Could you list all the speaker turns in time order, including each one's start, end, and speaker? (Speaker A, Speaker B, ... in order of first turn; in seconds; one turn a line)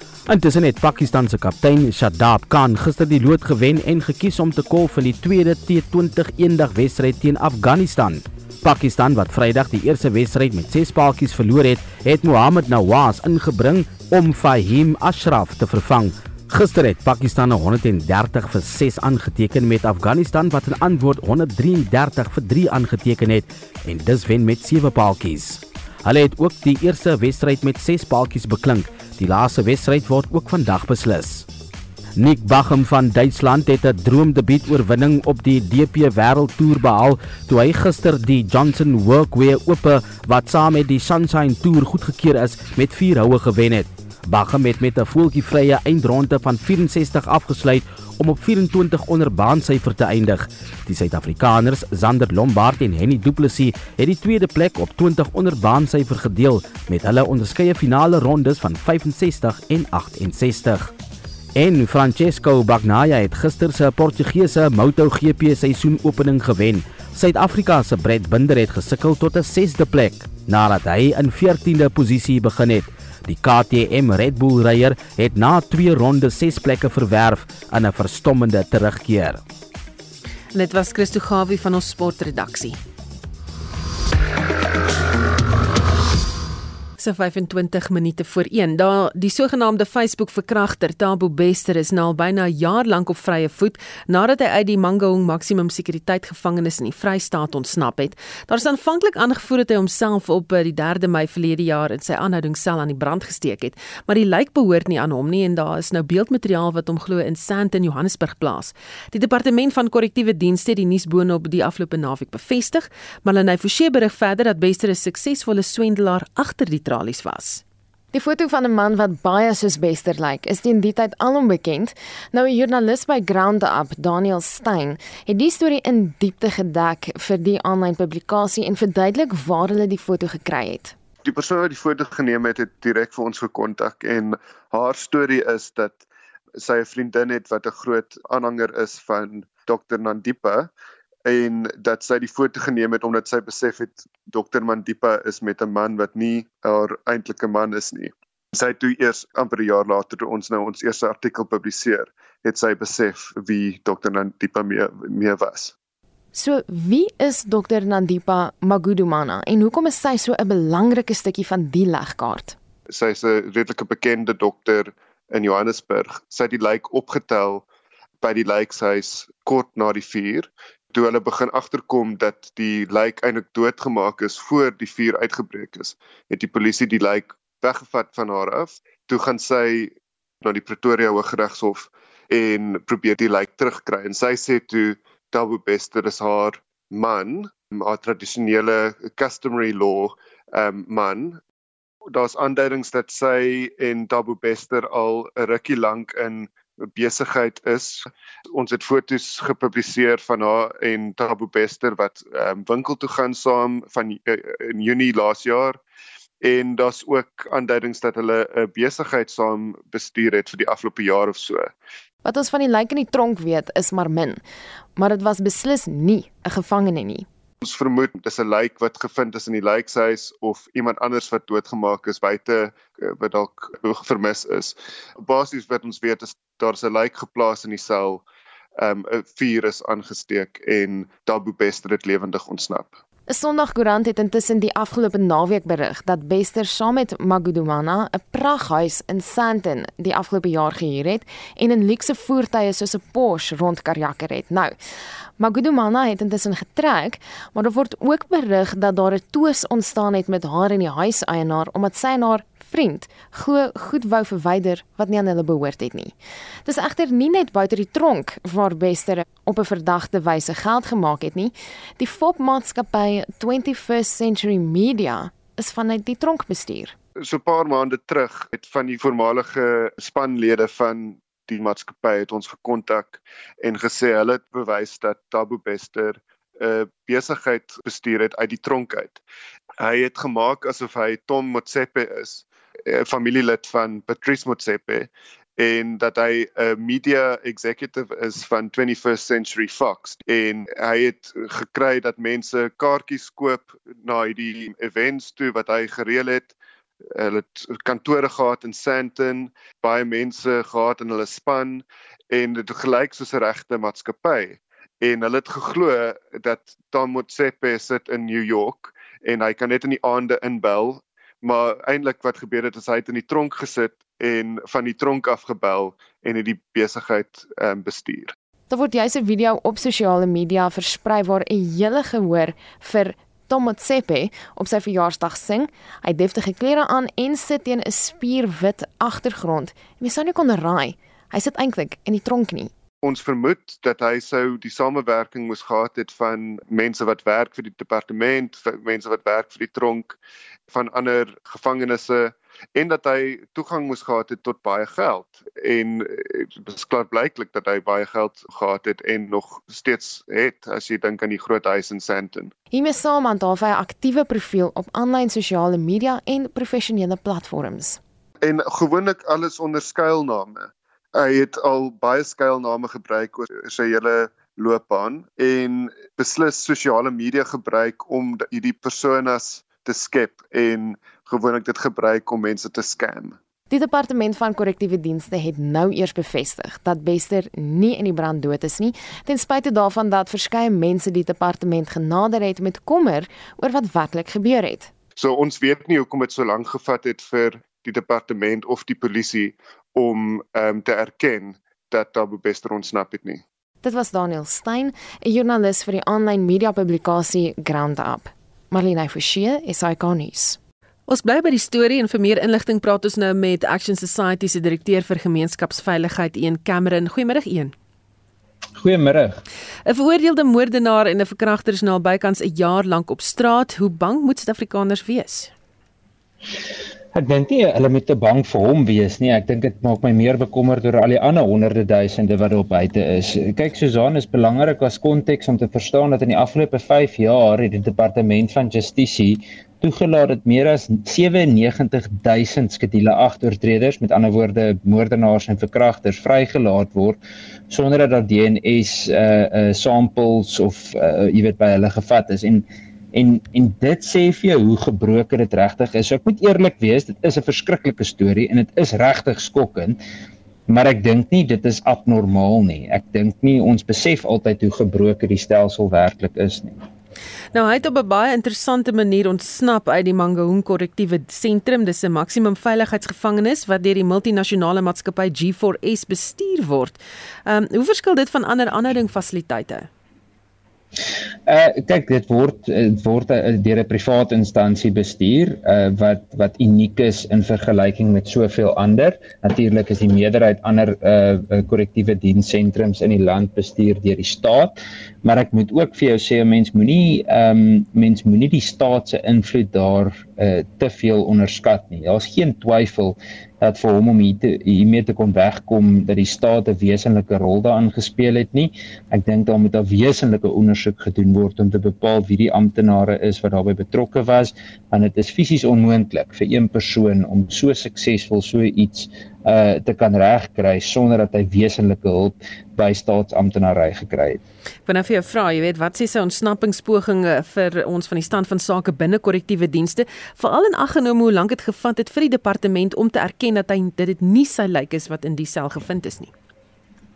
Speaker A: 0.3-31.5
Speaker A: 32.2-60.9
Speaker A: 61.6-79.4
Speaker B: 80.5-82.8
Speaker B: 87.0-117.6
Speaker C: 118.1-130.9
Speaker D: 131.2-136.0
Speaker D: 136.6-140.7
Speaker D: 141.3-155.7
Speaker C: 156.3-162.6
Speaker D: 162.9-167.6
Speaker D: 168.2-179.9
Speaker D: 180.4-191.4
Speaker D: 192.1-205.8
Speaker D: 206.4-211.7
Speaker C: 212.2-214.4
Speaker C: 215.0-217.3
Speaker D: 217.6-228.2
Speaker D: 228.8-233.0
Speaker C: 233.3-244.8
Speaker C: 245.4-256.1
Speaker C: 256.7-266.9
Speaker D: 267.2-279.2
Speaker D: 279.8-296.5
Speaker D: 297.1-318.3
Speaker C: 318.7-332.7
Speaker D: 333.0-340.2
Speaker D: 340.7-352.5
Speaker C: 352.7-358.0
Speaker D: 358.4-373.4
Speaker C: 373.7-384.9
Speaker D: 385.1-393.4
Speaker C: 393.8-400.6
Speaker B: 401.1-407.7
Speaker E: 408.8-409.4
Speaker B: 409.9-415.5
Speaker E: 417.1-450.0
Speaker E: 450.7-456.8
Speaker B: 457.5-469.9
Speaker E: 471.5-514.4
Speaker B: 514.9-526.3